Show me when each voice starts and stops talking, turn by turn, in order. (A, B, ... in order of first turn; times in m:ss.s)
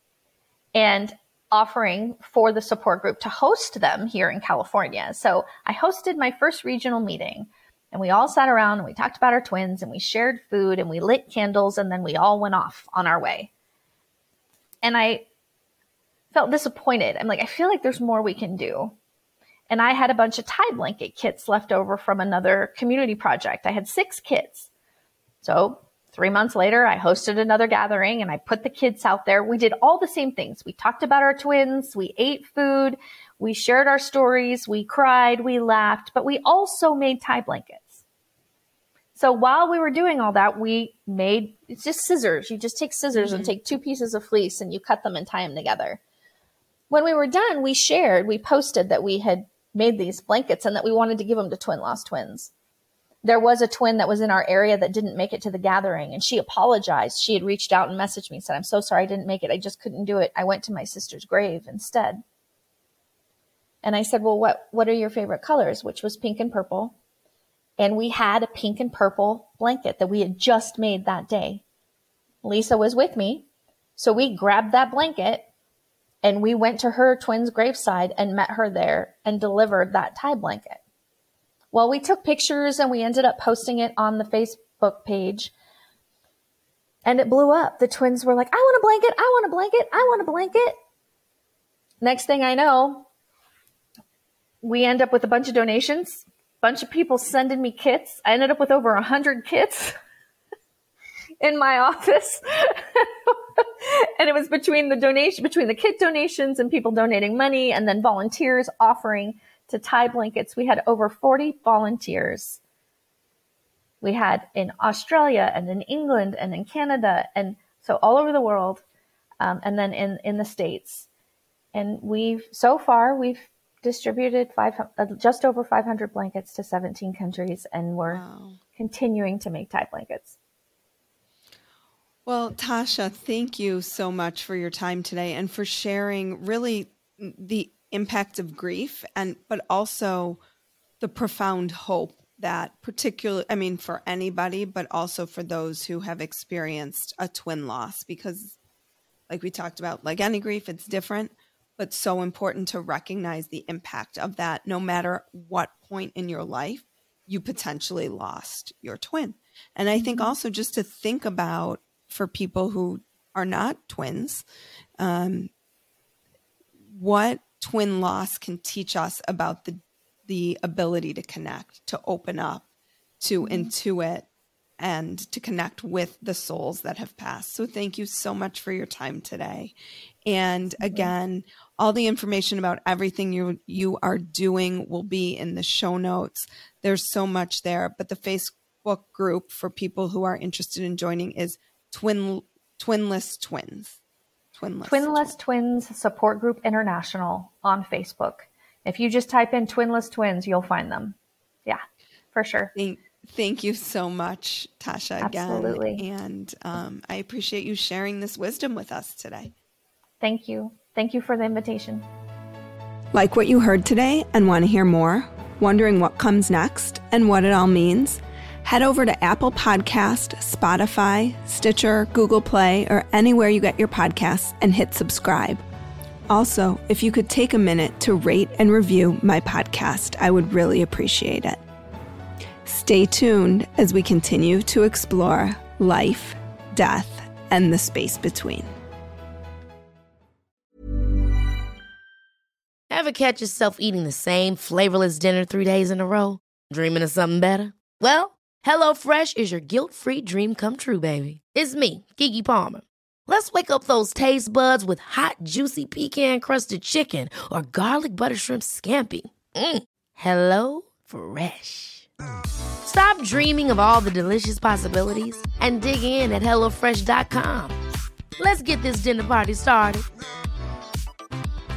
0:00.7-0:13.5 A
0:14.8-0:15.2 A
0:16.3-0:18.9 A
0:19.7-0:24.7 A
0:25.4-0:38.0 A
0:39.2-0:46.0 A
0:43.1-0:43.5 B
0:46.9-0:52.5 A
0:53.2-1:02.2 A
1:03.8-1:07.0 A
1:07.8-1:11.6 A
1:12.4-1:13.4 A
1:14.0-1:15.5 A
1:16.2-1:20.8 A
1:21.7-1:25.5 A
1:27.0-1:30.7 A
1:32.0-1:33.1 A
1:34.6-1:39.9 A
1:41.4-1:52.6 A
1:54.0-1:58.8 A
1:59.4-2:01.1 A
2:01.7-2:08.2 A
2:08.1-2:08.6 B
2:08.8-2:10.3 A
2:12.2-2:20.4 B
2:21.0-2:28.6 B
2:29.3-2:44.4 B
2:39.9-2:40.4 A
2:45.0-2:45.5 B
2:46.9-2:52.6 B
2:53.2-2:54.3 B
2:53.4-2:53.7 A
2:54.8-2:59.7 B
3:00.2-3:14.0 B
3:00.8-3:01.1 A
3:14.5-3:15.3 B
3:14.8-3:21.8 A
3:22.3-3:22.7 A
3:22.7-3:29.5 B
3:25.2-3:26.0 A
3:30.2-3:32.0 A
3:33.1-3:45.6 B
3:46.3-3:51.6 B
3:52.6-3:58.7 B
4:02.9-4:22.1 C
4:22.8-4:27.8 C
4:28.4-4:30.0 C